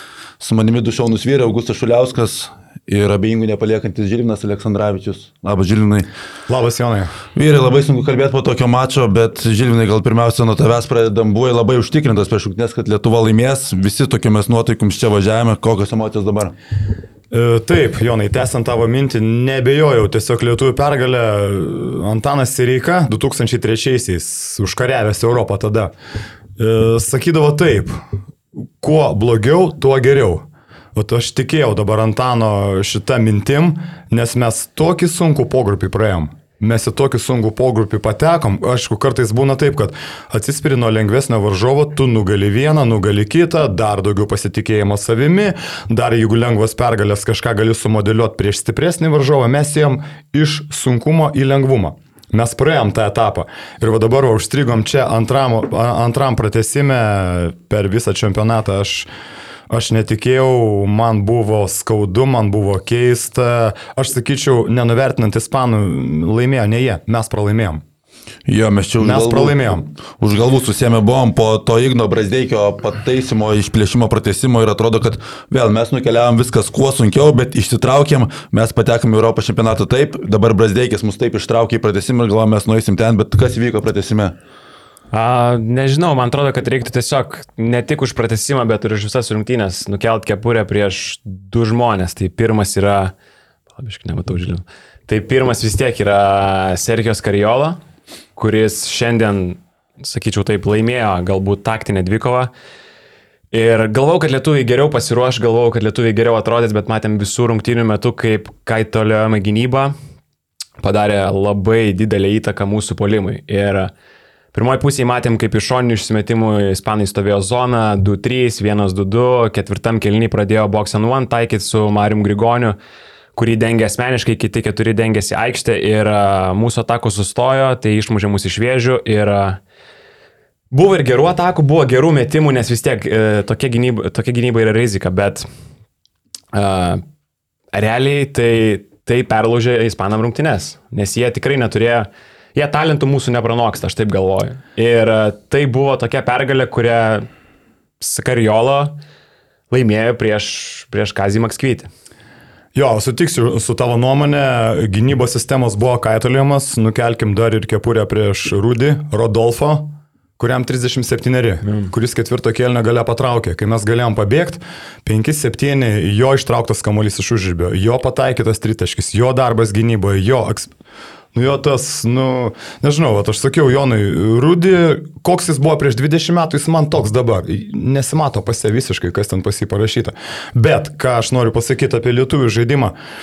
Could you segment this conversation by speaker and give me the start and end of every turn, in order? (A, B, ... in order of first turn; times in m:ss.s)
0:00.4-0:06.1 A
0:06.5-0:07.1 B
0:07.4-0:16.5 A
0:17.3-0:25.9 B
0:26.6-0:28.0 B
0:28.8-0:59.1 B
0:59.7-1:07.8 B
1:08.5-1:24.4 A
1:09.0-1:09.9 B
1:25.1-1:33.1 C
1:33.8-1:37.8 C
1:38.4-1:42.5 C
1:43.5-1:49.9 C
1:50.8-1:53.9 C
1:54.5-2:02.8 C
2:03.4-2:09.6 C
2:10.7-2:15.5 C
2:16.5-2:17.0 C
2:17.7-2:27.3 C
2:28.0-2:29.0 C
2:29.7-2:31.9 C
2:32.8-2:50.7 B
2:51.3-3:03.0 B